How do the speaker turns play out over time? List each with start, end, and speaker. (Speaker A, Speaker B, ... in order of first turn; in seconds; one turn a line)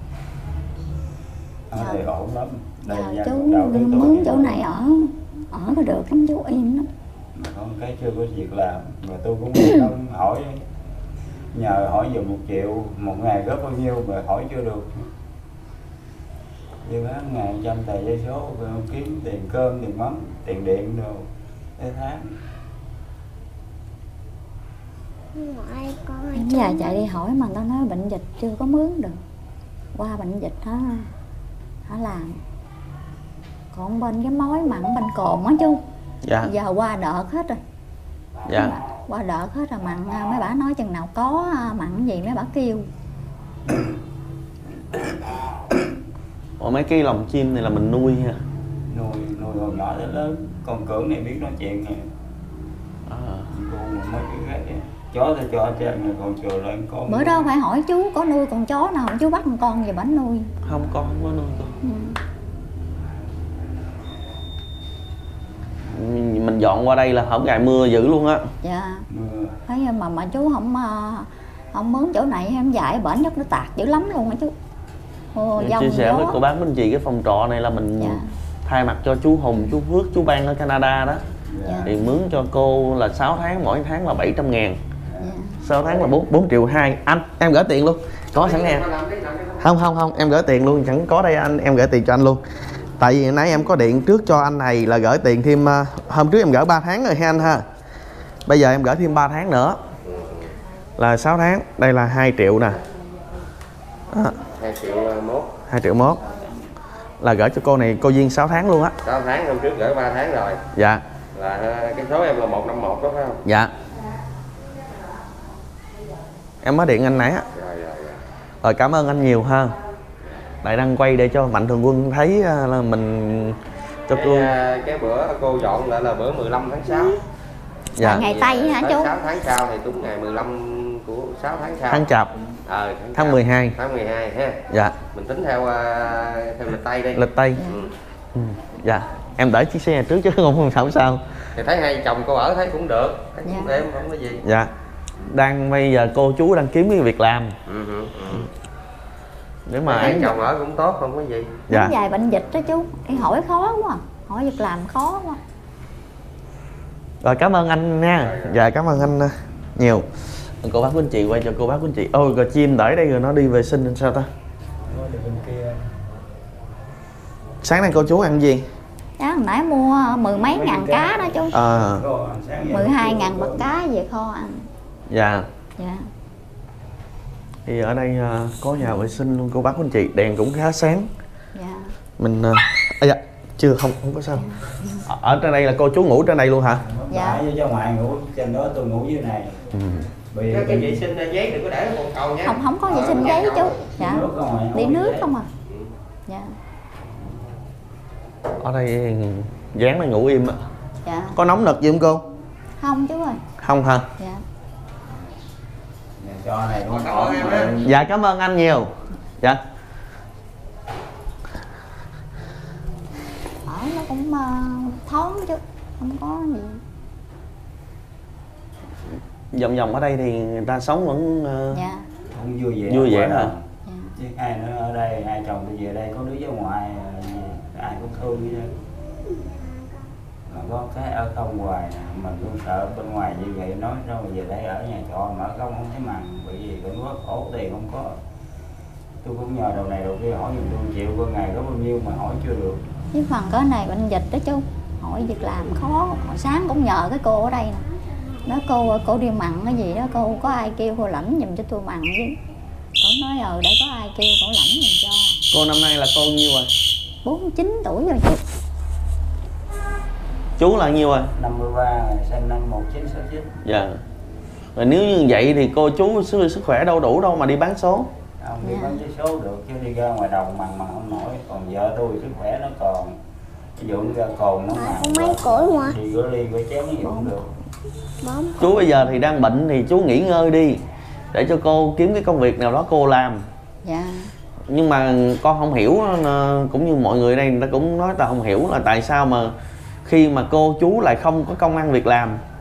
Speaker A: 1.7-4.6
Speaker B: 1.8-2.0
Speaker B: 2.9-6.9
Speaker A: 7.3-10.6
Speaker A: 11.5-15.1
Speaker A: 16.8-22.4
Speaker C: 25.3-27.1
Speaker B: 26.3-29.2
Speaker B: 29.9-31.1
Speaker B: 31.9-32.4
Speaker B: 33.7-35.8
Speaker D: 36.2-36.5
Speaker B: 36.4-37.6
Speaker D: 38.5-38.8
Speaker B: 38.5-42.9
Speaker A: 43.6-44.0
Speaker D: 46.6-48.4
Speaker A: 48.9-52.1
Speaker D: 53.1-53.5
Speaker A: 53.5-57.5
Speaker B: 57.1-60.5
Speaker D: 60.6-61.8
Speaker B: 61.8-62.2
Speaker D: 65.9-68.5
Speaker B: 68.6-69.1
Speaker A: 69.1-69.6
Speaker B: 69.7-74.5
Speaker B: 75.3-76.4
Speaker D: 75.5-81.2
Speaker B: 78.0-78.3
Speaker A: 81.5-81.9
Speaker B: 81.7-81.9
Speaker D: 81.8-84.8
Speaker A: 85.1-85.3
Speaker B: 85.2-85.6
Speaker D: 85.6-88.9
Speaker E: 88.3-89.6
Speaker D: 89.6-92.4
Speaker D: 93.0-97.6
Speaker D: 98.5-99.8
Speaker E: 100.0-100.5
Speaker D: 101.0-102.8
Speaker D: 104.1-104.4
Speaker E: 104.5-105.6
Speaker D: 105.7-106.2
Speaker D: 107.2-109.0
Speaker E: 109.0-110.6
Speaker D: 110.7-111.0
Speaker E: 111.3-113.4
Speaker D: 113.4-113.7
Speaker D: 116.6-117.5
Speaker E: 117.5-118.2
Speaker D: 118.6-119.7
Speaker D: 120.6-124.5
Speaker E: 124.1-127.2
Speaker D: 128.0-128.3
Speaker B: 128.0-129.1
Speaker E: 128.2-137.9
Speaker D: 131.9-132.3
Speaker D: 133.1-133.8
Speaker D: 134.7-135.0
Speaker D: 137.1-137.6
Speaker B: 137.6-137.9
Speaker D: 138.3-141.5
Speaker E: 141.5-144.4
Speaker B: 143.4-143.8
Speaker D: 144.4-144.7
Speaker D: 145.2-147.5
Speaker E: 147.7-148.5
Speaker D: 149.7-150.4
Speaker E: 149.8-151.7
Speaker D: 151.7-151.9
Speaker B: 151.7-155.4
Speaker D: 157.2-160.1
Speaker E: 158.2-158.6
Speaker D: 160.6-164.3
Speaker A: 164.8-165.9
Speaker D: 167.6-168.7
Speaker B: 169.2-171.5
Speaker A: 170.3-173.7
Speaker D: 171.5-172.0
Speaker B: 172.7-174.7
Speaker D: 175.1-175.4
Speaker B: 175.8-176.1
Speaker D: 177.7-181.1
Speaker B: 181.5-181.9
Speaker D: 182.2-184.5
Speaker B: 184.4-185.0
Speaker D: 185.0-186.9
Speaker A: 186.8-189.6
Speaker B: 187.1-187.4
Speaker D: 189.7-190.1
Speaker A: 190.3-191.1
Speaker E: 190.5-193.8
Speaker B: 192.4-195.5
Speaker A: 193.9-195.3
Speaker B: 196.3-196.6
Speaker D: 198.6-200.6
Speaker B: 201.0-201.4
Speaker D: 201.3-202.2
Speaker B: 202.8-203.4
Speaker D: 203.6-204.1
Speaker A: 205.1-205.4
Speaker A: 206.2-207.9
Speaker E: 206.9-207.7
Speaker D: 207.6-209.6
Speaker B: 213.7-216.8
Speaker D: 219.5-221.8
Speaker B: 221.7-222.1
Speaker A: 222.3-228.7
Speaker D: 222.9-223.5
Speaker B: 223.9-224.1
Speaker C: 229.2-230.1
Speaker A: 230.5-238.2
Speaker A: 239.2-242.8
Speaker B: 243.1-247.9
Speaker C: 248.1-248.5
Speaker B: 248.4-252.3
Speaker B: 253.0-255.4
Speaker D: 255.5-256.7
Speaker B: 257.2-258.4
Speaker D: 260.6-261.3
Speaker A: 261.3-263.6
Speaker D: 263.6-264.0
Speaker D: 264.8-268.1
Speaker A: 268.4-273.2
Speaker B: 268.6-269.0
Speaker A: 273.8-277.5
Speaker C: 274.7-276.0
Speaker B: 277.0-277.4
Speaker C: 278.2-278.9
Speaker D: 278.6-280.8
Speaker D: 281.3-283.4
Speaker B: 283.8-284.3
Speaker D: 284.7-292.4